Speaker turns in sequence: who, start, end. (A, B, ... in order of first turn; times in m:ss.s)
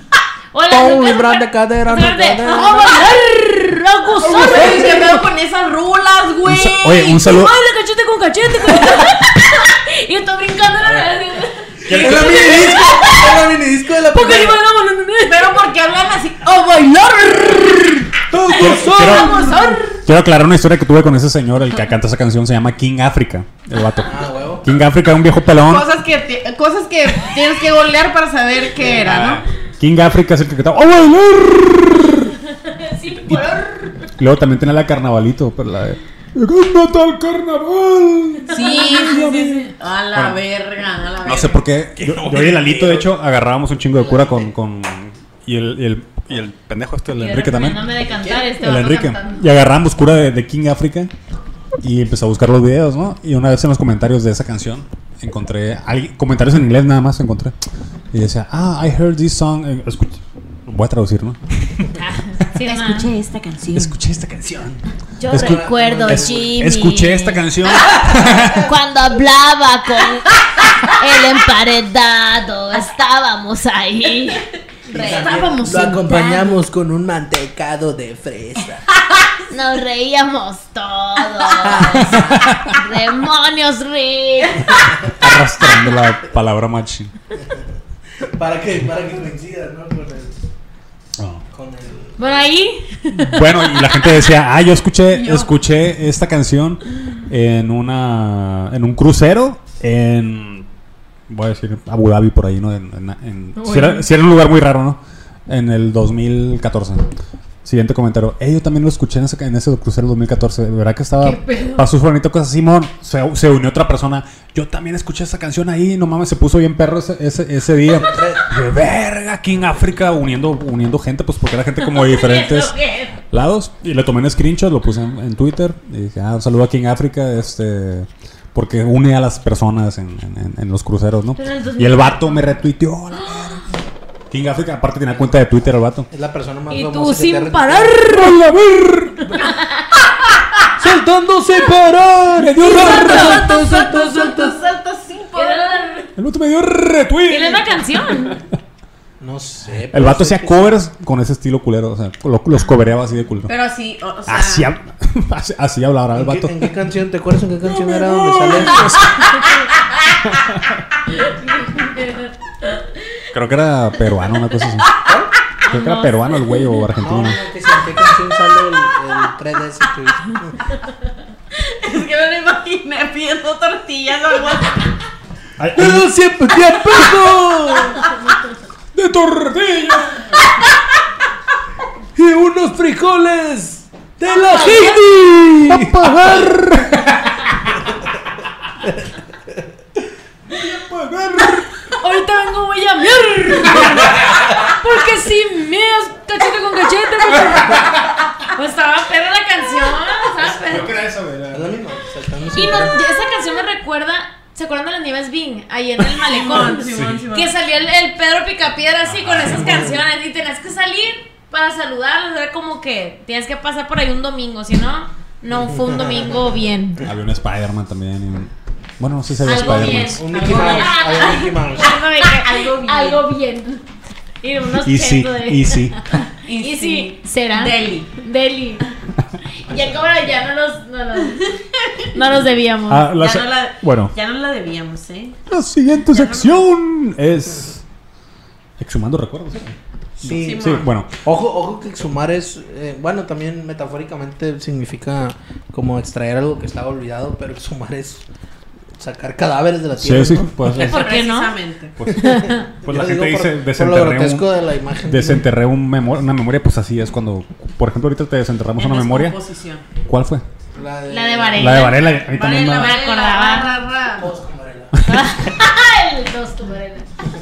0:00.5-0:05.2 A
0:00.7-0:02.8 B
0:02.5-0:03.4 C
0:04.2-0:07.2 C
0:06.4-0:07.6 D
0:06.9-0:15.6 A
0:10.8-0:11.1 D
0:11.9-0:12.5 D
0:11.9-0:14.6 B
0:15.2-0:17.9 C
0:18.2-0:19.8 B
0:18.5-0:19.4 D
0:18.6-0:19.7 A
0:18.9-0:20.0 C
0:20.0-0:25.9 D
0:24.0-0:24.7 B
0:25.6-0:29.4 C
0:28.9-0:32.3 D
0:32.5-0:34.1 A
0:34.2-0:40.4 D
0:38.5-0:39.0 A
0:38.5-0:41.6 C
0:41.2-0:48.0 D
0:42.0-0:43.1 B
0:43.9-0:44.5 B
0:47.2-0:49.5 A
0:48.1-0:48.5 B
0:48.6-0:51.1 D
0:51.8-0:57.6 D
0:58.1-1:01.8 D
1:02.0-1:03.1 A
1:02.6-1:04.0 C
1:03.7-1:08.7 D
1:05.2-1:14.2 E
1:05.3-1:06.6 B
1:08.0-1:08.7 B
1:13.8-1:14.5 A
1:14.9-1:18.9 B
1:14.9-1:16.6 C
1:15.0-1:15.4 E
1:19.5-1:23.6 E
1:21.9-1:22.4 B
1:22.1-1:22.7 D
1:23.0-1:24.7 A
1:25.1-1:27.1 D
1:27.4-1:27.7 B
1:28.3-1:30.4 B
1:31.2-1:31.4 D
1:31.5-1:32.5 B
1:32.2-1:34.3 A
1:33.1-1:40.7 D
1:35.1-1:35.5 C
1:41.3-1:47.1 D
1:43.6-1:44.1 A
1:47.6-2:02.8 D
1:51.2-1:51.9 A
1:58.0-1:58.4 B
2:01.8-2:03.2 A
2:03.3-2:13.6 D
2:11.4-2:12.6 A
2:13.2-2:13.5 A
2:14.3-2:16.1 D
2:16.1-2:18.0 B
2:16.7-2:18.4 A
2:18.0-2:19.5 D
2:19.3-2:20.1 A
2:20.8-2:24.6 B
2:22.3-2:23.5 D
2:22.6-2:24.4 A
2:23.7-2:26.0 C
2:25.4-2:26.1 A
2:26.2-2:28.4 D
2:27.3-2:28.4 A
2:29.2-2:30.8 B
2:29.9-2:33.5 D
2:33.5-2:34.7 C
2:34.3-2:36.7 D
2:36.1-2:39.0 B
2:37.6-2:39.7 D
2:38.7-2:39.7 A
2:40.3-2:40.8 D
2:41.1-2:43.3 A
2:43.3-2:44.9 D
2:45.0-2:45.3 B
2:45.6-2:46.8 A
2:45.7-2:47.4 D
2:47.0-2:50.7 B
2:51.6-2:54.9 C
2:55.6-2:56.1 D
2:55.8-2:58.1 B
2:58.0-2:58.4 A
2:58.9-3:00.4 D
3:02.2-3:06.5 B
3:04.3-3:05.1 A
3:05.5-3:07.2 D
3:08.8-3:09.6 B
3:10.5-3:11.8 D
3:12.0-3:20.9 A
3:13.6-3:14.2 D
3:17.3-3:18.0 D
3:20.4-3:21.8 D
3:21.5-3:23.0 B
3:22.5-3:37.1 A
3:26.1-3:27.5 C
3:26.8-3:27.2 D
3:29.0-3:30.0 D
3:35.5-3:36.5 B
3:37.0-3:40.2 D
3:39.4-3:43.8 A
3:39.5-3:42.0 B
3:40.3-3:43.3 C
3:44.4-3:48.8 A
3:44.8-3:46.0 D
3:46.4-3:48.2 C
3:49.6-3:51.6 A
3:51.3-3:52.1 C
3:52.1-3:53.1 A
3:52.9-3:54.1 D
3:53.1-3:55.4 C
3:55.5-3:57.8 D
3:56.1-3:56.6 C
3:58.8-4:01.1 D
4:00.2-4:08.2 B
4:00.4-4:00.9 C
4:09.0-4:10.8 B
4:10.0-4:11.1 D
4:10.7-4:12.0 C
4:10.8-4:11.6 A
4:12.0-4:19.4 D
4:12.1-4:15.5 B
4:12.2-4:12.7 A
4:18.8-4:19.8 C
4:20.0-4:20.4 D
4:20.8-4:21.9 B
4:21.1-4:22.2 A
4:21.5-4:23.0 D
4:22.3-4:24.3 C
4:22.7-4:23.8 A
4:24.2-4:25.0 B
4:24.9-4:25.3 D
4:25.1-4:27.1 A